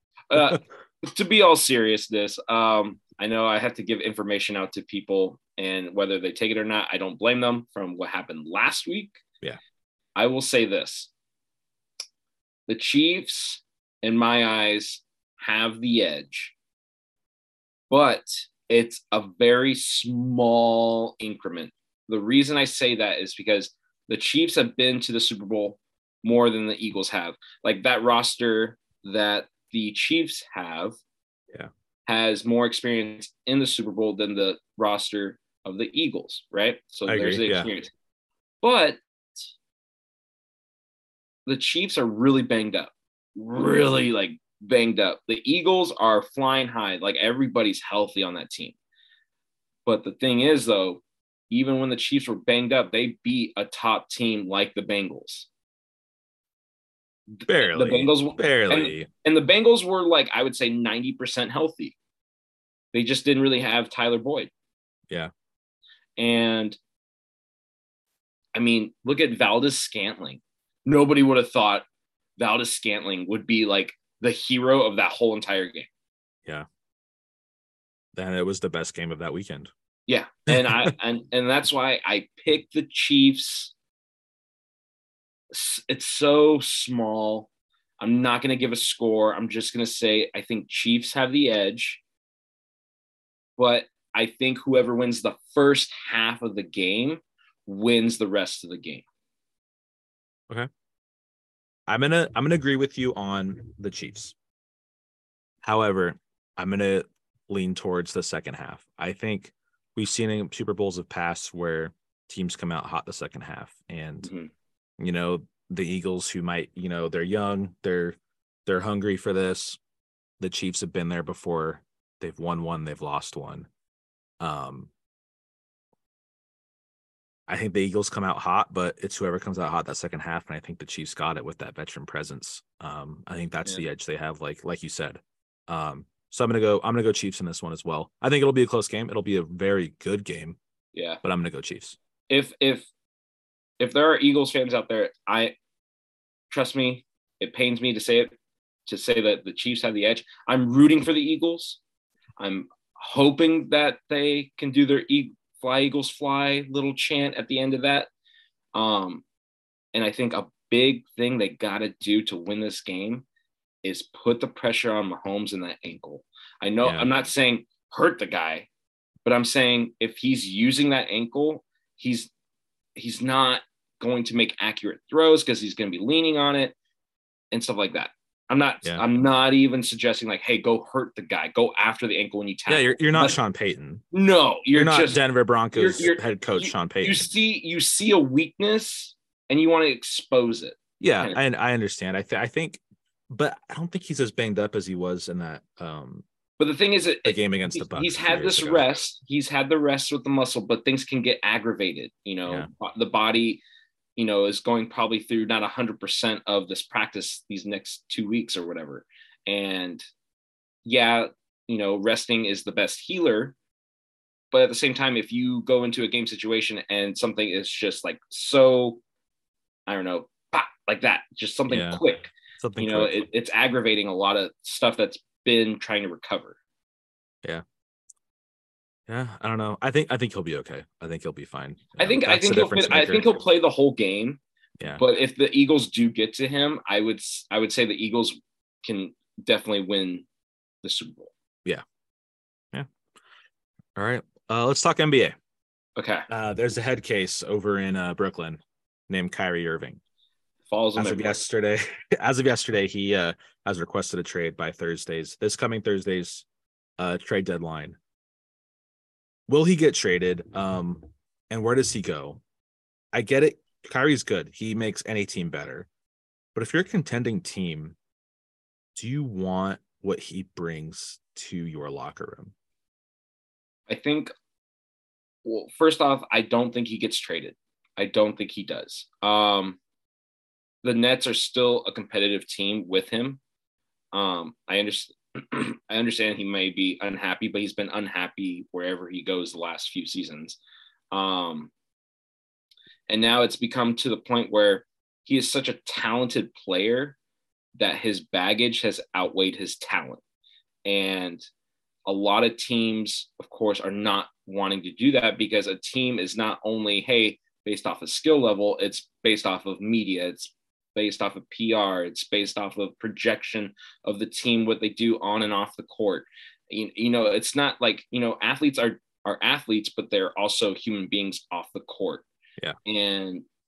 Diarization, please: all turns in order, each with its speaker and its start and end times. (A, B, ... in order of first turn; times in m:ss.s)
0:00.3-0:09.2 A
0:00.3-0:00.6 B
0:10.2-0:11.1 A
0:12.7-0:16.5 A
0:17.9-0:31.0 A
0:32.1-0:37.9 A
0:37.0-0:37.7 B
0:38.6-0:39.0 A
0:41.4-0:48.8 A
0:49.8-0:55.5 A
0:57.4-1:02.0 A
0:57.5-0:59.1 B
1:02.9-1:04.5 A
1:06.2-1:06.8 A
1:08.5-1:11.8 A
1:12.4-1:15.9 A
1:18.1-1:19.7 B
1:20.1-1:23.7 A
1:20.5-1:20.9 B
1:25.5-1:27.5 A
1:28.0-1:32.0 A
1:33.6-1:39.0 A
1:41.9-1:44.3 B
1:45.6-1:54.3 B
1:54.2-1:54.5 A
1:55.0-1:59.8 B
2:00.4-2:03.7 B
2:04.4-2:04.9 B
2:07.5-2:20.6 B
2:20.9-2:21.2 A
2:21.2-2:22.0 B
2:22.3-2:22.9 A
2:23.8-2:25.5 A
2:26.5-2:28.3 A
2:28.8-2:31.8 A
2:32.4-2:38.1 A
2:38.7-2:39.2 A
2:39.9-2:43.2 A
2:43.8-2:48.7 A
2:46.8-2:47.1 B
2:49.2-2:52.3 A
2:53.0-2:56.7 A
2:57.5-3:03.4 A
3:02.7-3:04.0 B
3:04.1-3:05.2 A
3:04.7-3:07.3 B
3:05.7-3:11.4 A
3:11.0-3:16.2 B
3:16.6-3:23.6 A
3:17.2-3:18.9 B
3:24.2-3:30.0 A
3:30.8-3:33.6 A
3:34.5-3:39.0 A
3:39.9-3:46.6 A
3:41.7-3:42.0 B
3:42.6-3:43.2 B
3:49.1-3:53.3 B
3:52.0-3:54.4 A
3:55.0-4:00.2 A
4:00.8-4:01.3 A
4:04.0-4:05.3 B
4:06.0-4:06.3 A
4:06.3-4:10.0 B
4:10.7-4:11.4 A
4:11.0-4:16.4 B
4:17.0-4:18.0 B
4:19.5-4:22.4 B
4:23.1-4:25.9 B
4:26.5-4:28.0 B
4:28.9-4:32.5 B
4:33.9-4:34.3 A
4:35.4-4:39.8 A
4:40.8-4:43.4 A
4:44.1-4:50.6 A
4:51.1-4:51.7 A
4:53.1-4:57.2 A
4:57.8-5:00.2 A
5:00.8-5:01.5 A
5:02.0-5:22.2 A
5:22.8-5:23.4 A